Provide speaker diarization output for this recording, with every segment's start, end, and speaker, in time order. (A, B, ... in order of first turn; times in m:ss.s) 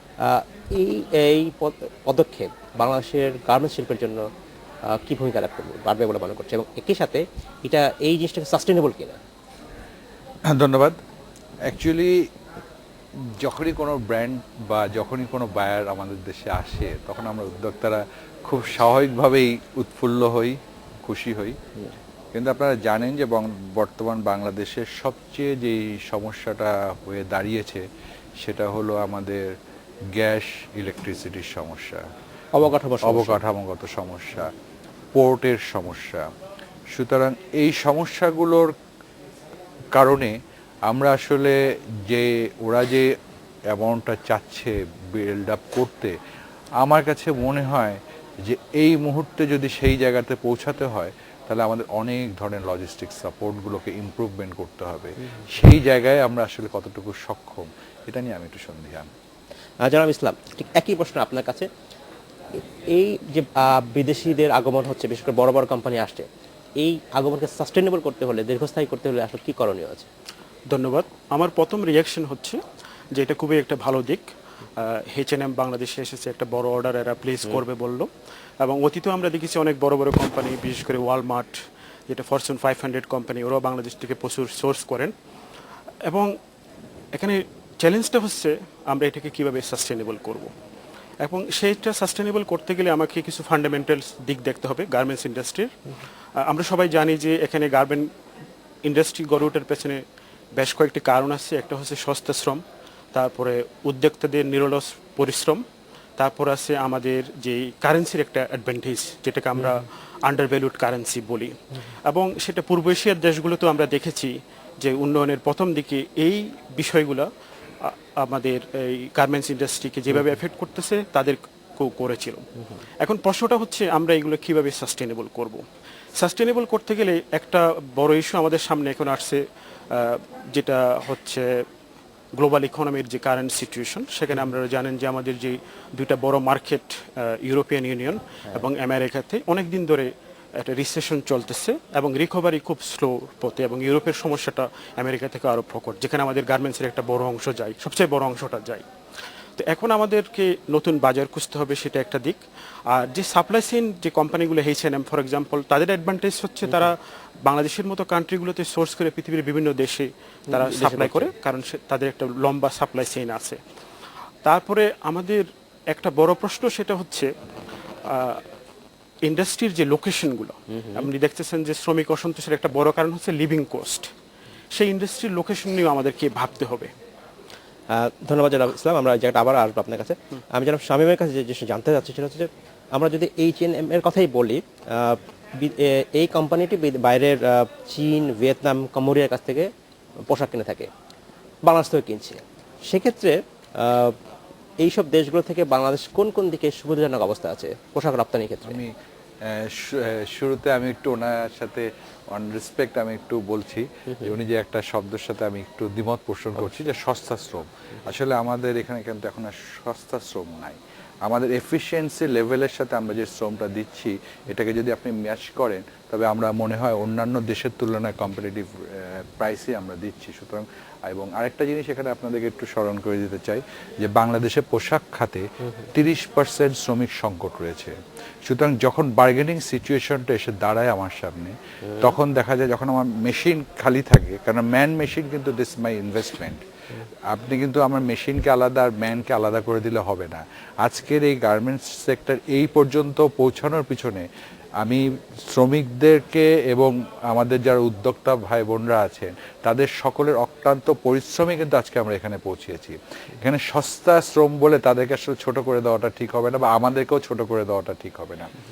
0:00.2-0:04.3 A
0:04.9-0:09.2 A
0:10.5-0:11.0 B
0:11.6-0:12.3 B
0:13.4-0:21.6 B
0:22.3-0:27.8 B
0:28.4-0:29.5 B
0:30.1-0:32.0 B
0:32.5-0:33.4 A
0:33.0-0:34.5 B
0:35.1-0:36.3 B
0:36.9-0:38.7 B
0:39.9-0:40.3 B
0:40.9-0:43.1 B
0:43.7-0:46.2 B
0:46.8-0:59.1 B
0:59.8-1:01.7 A
1:02.9-1:06.2 A
1:06.8-1:10.1 A
1:10.7-1:12.6 C
1:13.1-1:18.1 C
1:18.6-1:21.6 C
1:22.1-1:25.1 C
1:26.0-1:26.3 C
1:27.1-1:30.5 C
1:31.2-1:35.7 C
1:36.4-1:38.1 C
1:38.8-1:40.0 C
1:40.5-1:42.6 C
1:43.1-1:45.6 C
1:46.2-1:51.6 C
1:52.1-1:57.3 C
1:57.8-2:02.4 C
2:03.0-2:05.6 C
2:06.2-2:09.4 C
2:09.9-2:11.5 C
2:12.4-2:20.1 C
2:20.6-2:28.8 C
2:29.6-2:43.6 C
2:36.6-2:36.9 A
2:40.5-2:41.3 A
2:44.4-2:47.3 C
2:48.1-2:48.4 C
2:49.2-2:54.1 C
2:50.7-2:51.1 A
2:54.7-2:56.9 C
2:57.9-3:09.7 A
3:10.3-3:10.9 A
3:11.6-3:14.1 A
3:14.8-3:18.8 A
3:18.7-3:18.9 B
3:19.4-3:56.6 B
3:57.3-4:04.3 B
4:04.8-4:18.5 B